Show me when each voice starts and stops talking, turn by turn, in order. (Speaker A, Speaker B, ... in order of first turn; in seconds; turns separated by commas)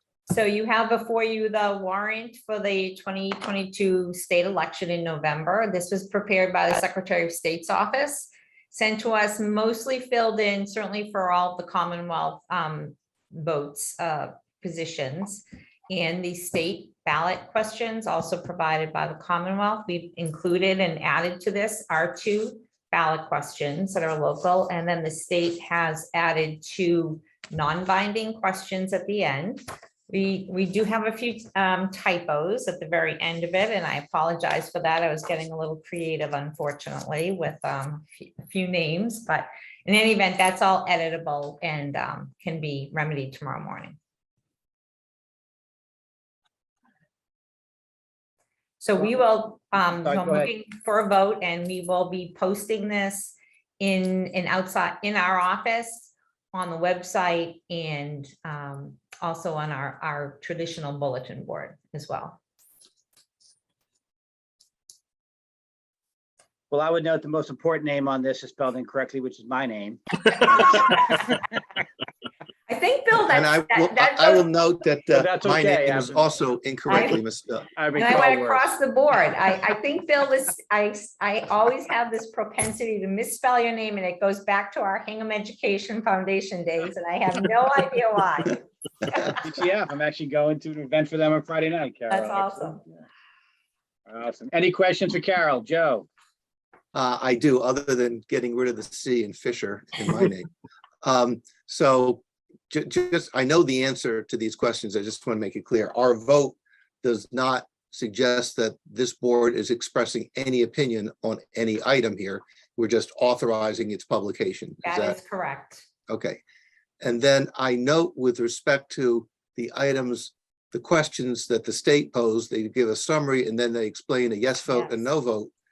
Speaker A: 0.3-44.0, Speaker A: 48.8-62.4, Speaker B: 49.9-50.5, Speaker B: 66.7-71.2, Speaker A: 72.7-74.5, Speaker C: 73.3-77.7, Speaker B: 75.1-76.3, Speaker A: 76.9-77.2, Speaker B: 77.8-78.7, Speaker A: 78.0-89.4, Speaker B: 89.4-92.9, Speaker A: 92.1-92.8, Speaker B: 94.1-96.1, Speaker C: 96.9-100.5, Speaker C: 101.0-115.2, Speaker A: 114.8-115.9, Speaker C: 116.1-116.4, Speaker C: 117.0-125.5, Speaker A: 124.7-124.9